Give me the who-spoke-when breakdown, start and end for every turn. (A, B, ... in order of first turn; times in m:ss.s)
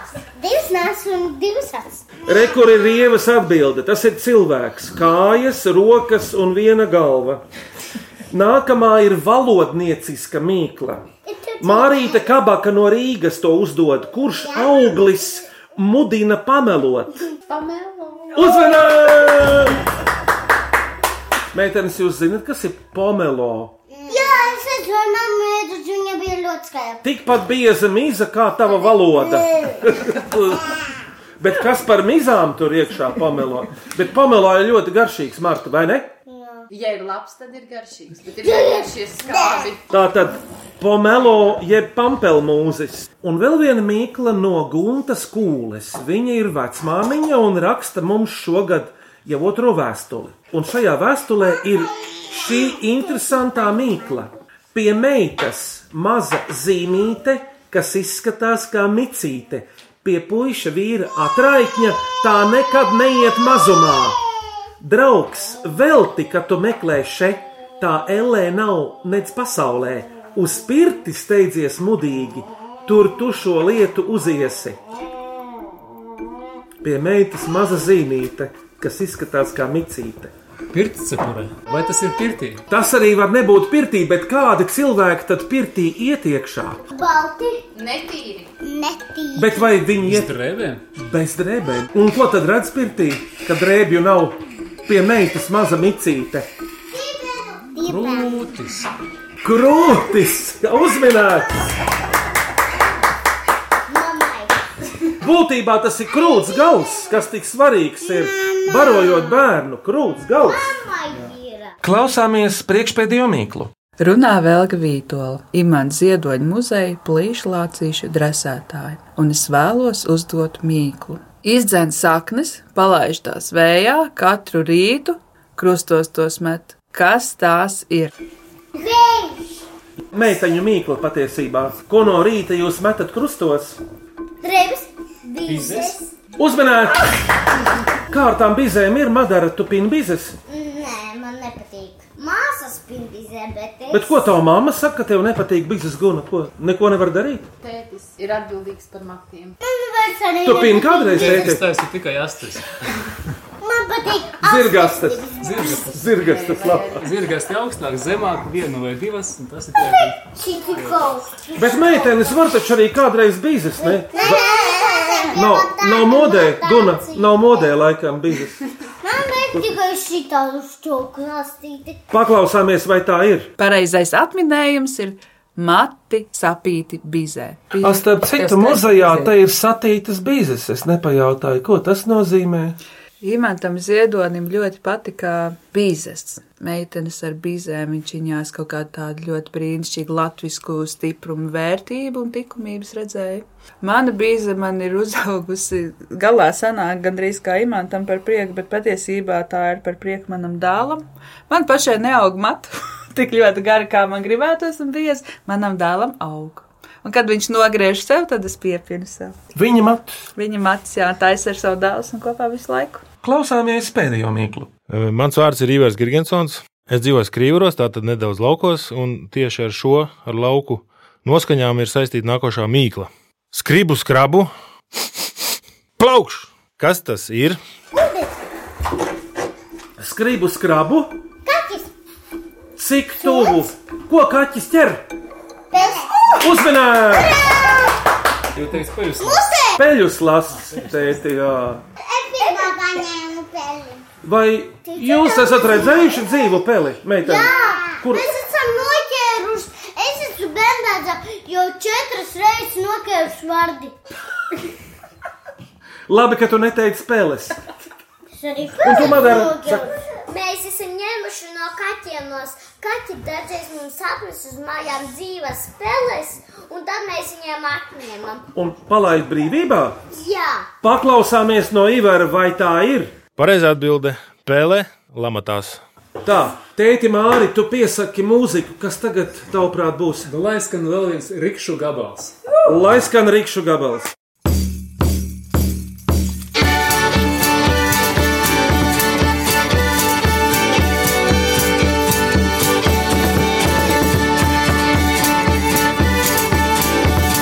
0:00.3-0:02.2 A
0:02.2-0:07.4 B
0:08.3-0:11.1 B
0:11.2-0:12.3 A
0:11.6-0:17.1 B
0:14.4-0:15.0 A
0:17.5-0:18.4 C
0:18.3-0:19.8 B
0:21.5-0:23.7 B
0:23.9-0:27.0 A
0:27.0-0:30.7 B
0:29.3-0:29.8 A
0:31.4-0:36.1 B
0:36.3-0:36.7 A
0:36.7-0:39.8 C
0:38.4-0:39.6 A
0:39.9-1:04.2 B
1:04.8-1:14.8 B
1:16.8-1:20.3 B
1:20.7-1:22.6 D
1:22.7-1:26.8 B
1:26.9-1:27.6 A
1:27.7-1:28.5 C
1:28.6-1:29.7 A
1:29.3-1:30.3 B
1:30.0-1:30.8 D
1:31.0-1:36.5 B
1:36.9-1:38.4 A
1:37.8-1:38.9 D
1:39.4-1:41.5 B
1:43.9-1:44.7 A
1:45.2-1:50.7 B
1:46.5-1:47.0 A
1:48.4-1:49.4 A
1:50.4-1:51.8 A
1:51.8-1:53.7 B
1:54.0-2:08.1 E
2:08.7-2:09.6 A
2:10.1-2:13.8 B
2:14.4-2:16.1 A
2:15.4-2:16.0 D
2:16.4-2:17.1 B
2:18.1-2:20.4 B
2:20.4-2:24.2 A
2:23.9-2:27.4 B
2:27.6-2:29.6 C
2:29.6-2:31.5 A
2:30.4-2:31.6 B
2:31.1-2:32.9 D
2:33.6-2:35.9 A
2:34.4-2:37.0 B
2:35.4-2:36.2 D
2:36.2-2:37.1 C
2:36.9-2:40.2 D
2:39.8-2:42.4 A
2:40.7-2:41.1 D
2:41.6-2:44.4 B
2:43.8-2:47.7 A
2:45.3-2:48.6 B
2:49.0-2:52.0 A
2:52.1-2:53.5 B
2:53.6-2:59.3 E
2:57.8-3:02.8 B
3:03.2-3:29.4 E
3:29.5-3:30.2 B
3:30.4-3:33.0 E
3:33.2-3:34.7 B
3:34.9-3:44.5 F
3:46.0-3:47.6 F
3:47.9-3:48.3 A
3:50.0-3:51.2 B
3:51.4-3:51.9 A
3:52.8-3:55.0 B
3:53.2-3:53.6 A
3:55.7-3:56.2 A
3:56.4-3:57.4 B
3:57.5-3:57.8 A
3:58.5-3:59.5 D
3:59.2-3:59.8 A
3:59.7-4:01.8 B
4:00.5-4:01.2 D
4:02.0-4:04.0 A
4:04.2-4:08.3 B
4:04.8-4:06.6 A
4:07.2-4:14.0 A
4:16.1-4:17.6 B
4:18.4-4:28.5 A
4:18.8-4:19.9 B
4:28.5-4:30.0 B
4:30.1-4:30.7 A
4:30.8-4:33.2 B
4:33.4-4:35.8 F
4:36.2-4:40.3 B
4:40.2-4:42.4 D
4:42.6-4:44.1 B